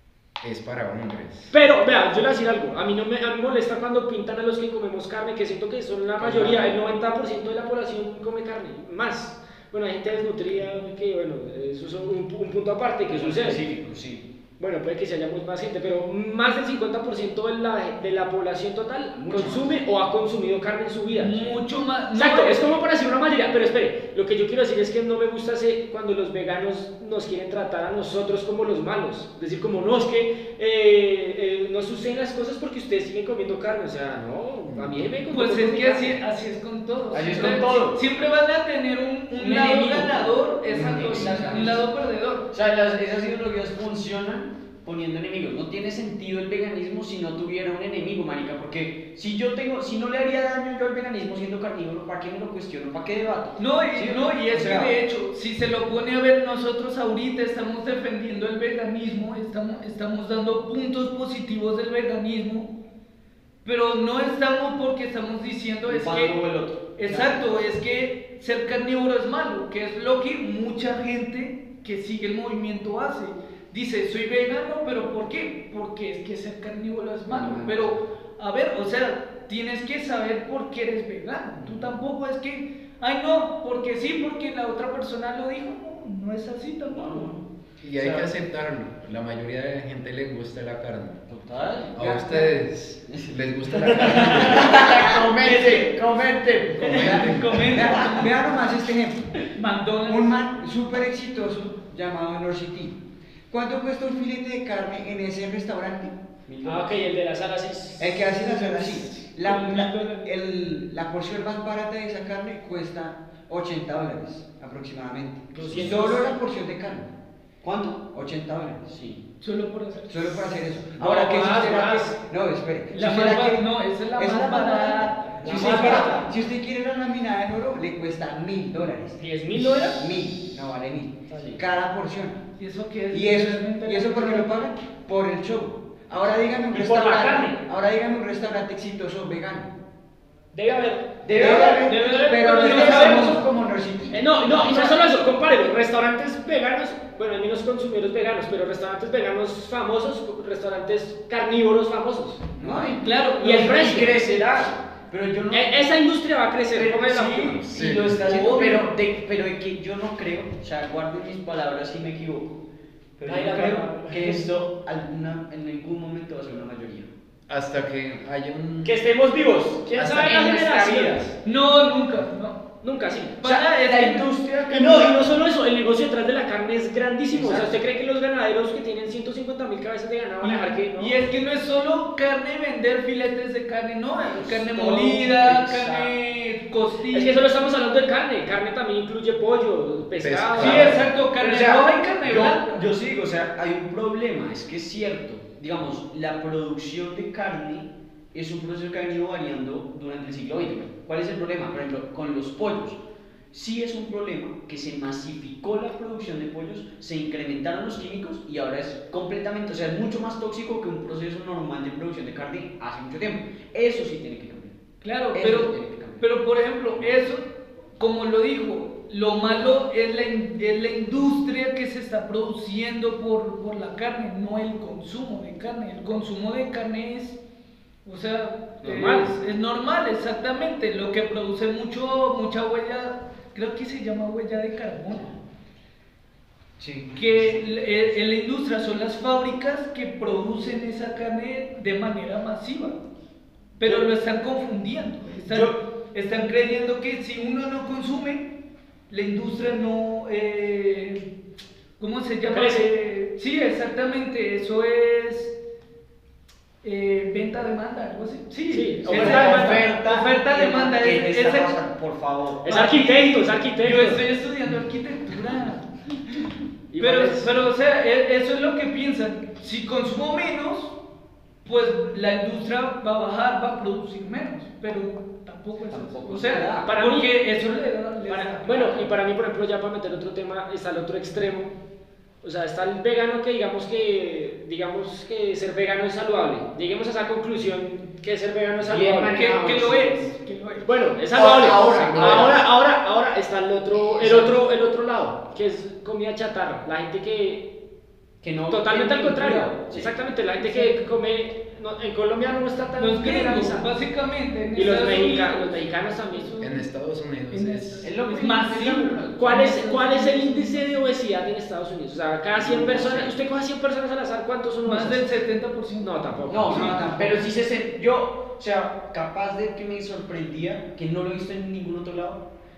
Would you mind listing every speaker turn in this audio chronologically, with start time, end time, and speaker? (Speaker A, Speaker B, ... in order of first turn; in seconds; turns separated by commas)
Speaker A: 0.4-1.5, Speaker B: 1.5-13.6, Speaker A: 6.2-6.7, Speaker C: 13.1-14.2, Speaker B: 14.6-21.6, Speaker C: 19.1-19.8, Speaker D: 21.1-22.7, Speaker B: 22.1-36.1, Speaker A: 34.7-35.1, Speaker D: 35.3-42.5, Speaker C: 37.1-38.0, Speaker C: 39.3-41.8, Speaker E: 40.7-41.6, Speaker C: 42.5-54.9, Speaker D: 53.6-62.7, Speaker D: 63.6-66.4, Speaker C: 65.8-67.3, Speaker D: 66.9-87.4, Speaker C: 77.3-78.0, Speaker C: 81.6-81.9, Speaker C: 86.9-87.4, Speaker A: 87.8-91.2, Speaker C: 88.0-88.3, Speaker C: 91.3-92.0, Speaker A: 91.9-95.1, Speaker E: 92.0-92.5, Speaker C: 93.1-97.0, Speaker D: 94.4-96.0, Speaker A: 96.8-97.7, Speaker D: 96.8-98.4, Speaker E: 96.9-99.3, Speaker D: 99.5-100.3, Speaker E: 100.0-103.0, Speaker E: 103.5-106.2, Speaker C: 106.5-106.9, Speaker B: 106.6-110.3, Speaker E: 108.0-117.1, Speaker B: 115.5-116.3, Speaker C: 115.6-116.1, Speaker C: 117.6-118.0, Speaker E: 118.0-118.9, Speaker C: 118.9-119.2, Speaker D: 119.4-120.5, Speaker E: 120.1-132.4, Speaker B: 121.0-122.2, Speaker D: 122.9-126.2, Speaker C: 125.2-126.3, Speaker B: 125.4-126.2, Speaker B: 129.2-130.1, Speaker B: 131.3-131.6, Speaker C: 131.3-131.6, Speaker D: 132.6-134.5, Speaker E: 133.1-139.7, Speaker B: 136.7-137.6, Speaker B: 140.5-143.4, Speaker C: 141.2-141.9, Speaker E: 141.3-144.2, Speaker D: 141.4-143.4, Speaker B: 144.1-152.4, Speaker C: 144.6-144.9, Speaker C: 152.6-155.8, Speaker E: 152.6-152.9, Speaker D: 152.7-154.1, Speaker B: 153.4-154.2, Speaker B: 155.5-157.6, Speaker C: 156.7-162.6, Speaker A: 157.7-158.4, Speaker D: 158.0-158.9, Speaker C: 163.2-167.1, Speaker B: 163.2-164.5, Speaker A: 167.5-169.0, Speaker C: 168.8-171.3, Speaker B: 169.9-171.3, Speaker A: 170.0-170.3, Speaker D: 171.4-172.6, Speaker B: 172.8-173.4, Speaker D: 173.4-175.2, Speaker C: 173.4-175.3, Speaker B: 174.7-181.2, Speaker C: 177.3-177.8, Speaker D: 180.4-187.4, Speaker C: 184.3-186.0, Speaker B: 184.8-186.1, Speaker B: 187.1-190.9, Speaker A: 190.2-191.0, Speaker D: 190.6-192.8, Speaker C: 191.4-203.0, Speaker C: 203.5-214.7, Speaker D: 215.0-217.5, Speaker C: 215.3-216.2, Speaker D: 218.0-227.4, Speaker D: 228.0-235.3, Speaker B: 228.8-229.3, Speaker C: 236.8-237.6, Speaker D: 237.2-243.0, Speaker D: 243.8-248.5, Speaker C: 245.4-245.8, Speaker D: 249.1-251.2, Speaker D: 252.0-255.6, Speaker B: 252.5-252.9, Speaker D: 256.8-261.7, Speaker B: 258.7-259.9, Speaker C: 259.0-262.6, Speaker B: 262.6-264.2, Speaker D: 262.6-265.9, Speaker B: 266.9-267.5, Speaker D: 267.0-270.9, Speaker D: 271.6-279.1, Speaker C: 275.9-276.9, Speaker B: 276.8-277.3, Speaker B: 278.3-281.7, Speaker B: 282.4-289.5, Speaker C: 288.8-290.3, Speaker D: 289.3-290.9, Speaker B: 290.8-297.7, Speaker C: 291.3-292.6, Speaker E: 291.7-292.4, Speaker C: 294.1-294.5, Speaker C: 298.4-300.1, Speaker B: 298.7-303.9, Speaker D: 300.5-301.1, Speaker D: 303.0-306.9, Speaker B: 304.7-306.5, Speaker A: 306.6-308.1, Speaker D: 307.5-311.0, Speaker C: 308.0-309.6, Speaker B: 309.3-315.2, Speaker C: 312.5-313.3, Speaker D: 314.9-316.4, Speaker B: 316.0-317.0, Speaker C: 316.5-322.4, Speaker E: 316.6-317.4